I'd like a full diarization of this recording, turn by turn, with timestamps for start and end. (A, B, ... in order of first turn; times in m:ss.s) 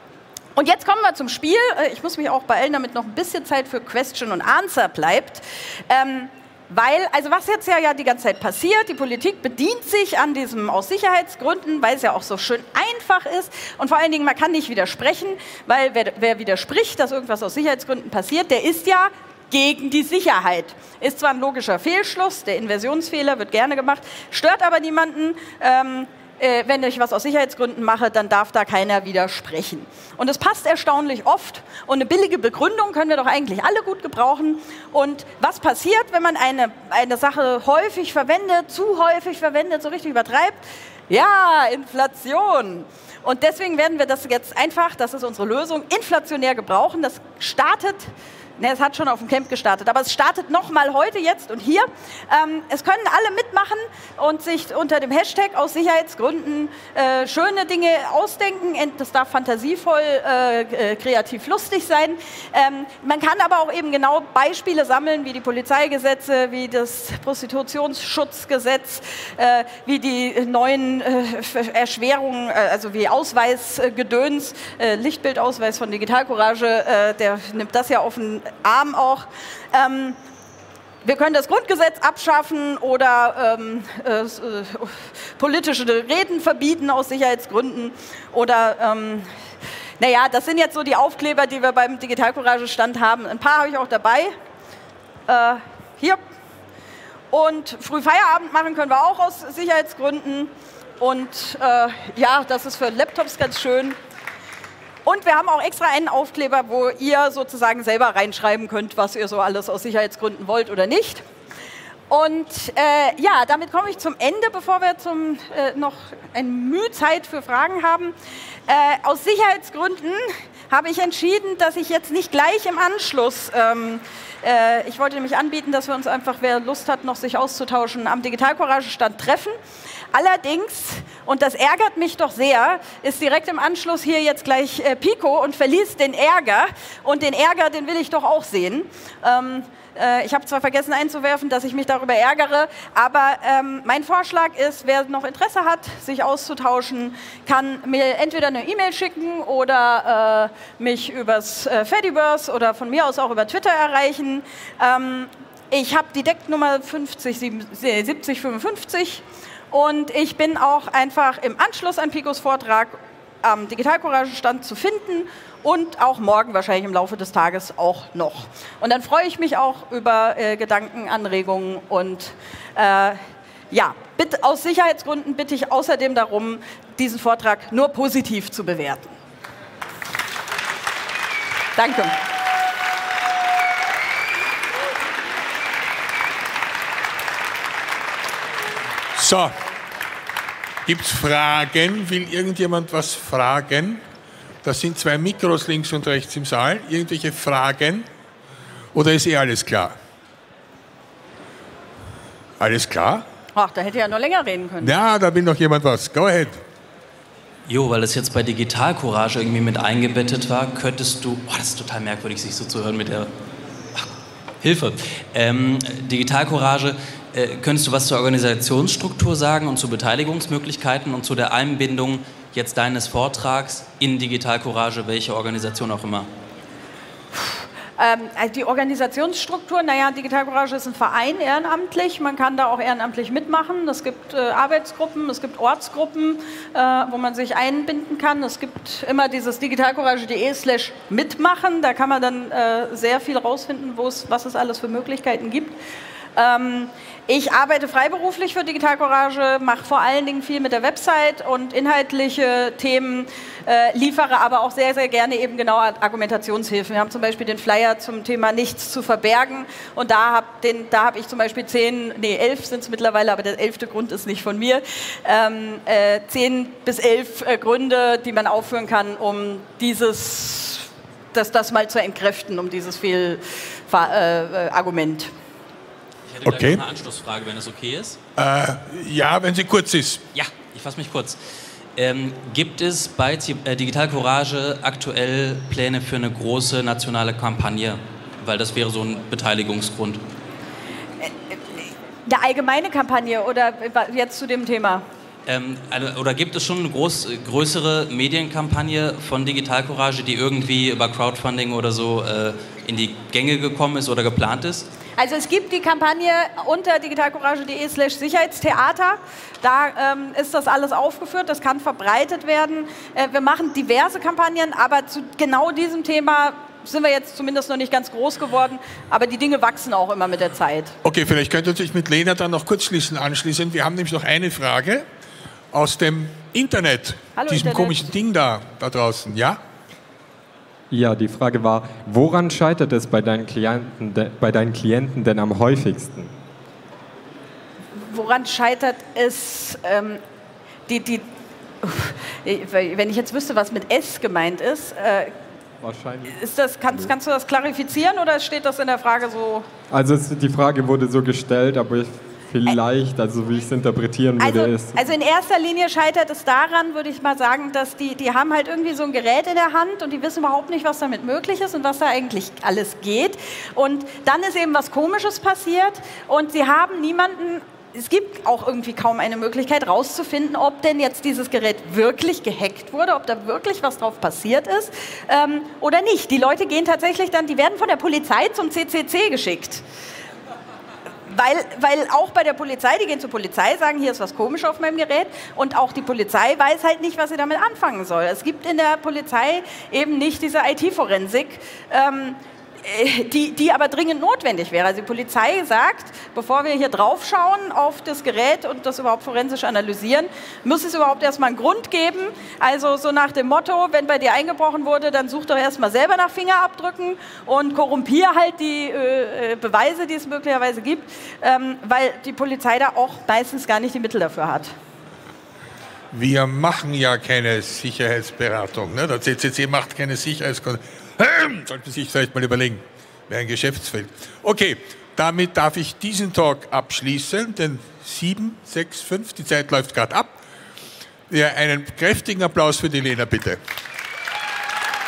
0:00.6-1:20.2 A
1:21.0-1:29.3 A
1:30.0-1:34.3 A
1:35.3-1:36.2 A
1:37.3-1:44.0 A
1:45.0-1:51.2 A
1:52.1-1:58.1 A
1:58.7-2:09.6 A
2:10.1-2:53.2 A
2:53.7-2:59.2 A
3:01.8-3:02.2 A
3:09.2-3:09.5 B
3:10.9-3:14.0 B
3:14.6-3:18.1 B
3:18.9-3:19.9 B
3:22.6-3:23.3 B
3:23.6-3:25.0 A
3:24.8-3:26.6 B
3:27.7-3:33.3 C
3:34.6-3:46.3 C
3:47.3-4:05.8 A
4:06.4-4:35.3 A
4:36.3-4:38.2 C
4:36.4-4:36.8 B
4:38.4-4:40.3 B
4:40.3-4:41.4 C
4:42.0-4:50.2 C
4:51.2-4:55.0 A
4:55.5-5:04.9 C
5:05.2-5:21.0 A
5:21.0-5:25.0 B
5:25.7-5:29.6 B
5:27.4-5:28.1 A
5:30.9-5:36.3 D
5:38.0-5:40.2 A
5:40.9-5:41.3 A
5:41.8-5:45.4 A
5:45.8-5:46.4 D
5:46.3-5:49.7 A
5:49.9-5:55.1 D
5:54.4-6:19.8 A
6:21.3-6:54.7 A
6:56.1-7:10.4 B
7:11.3-7:13.6 B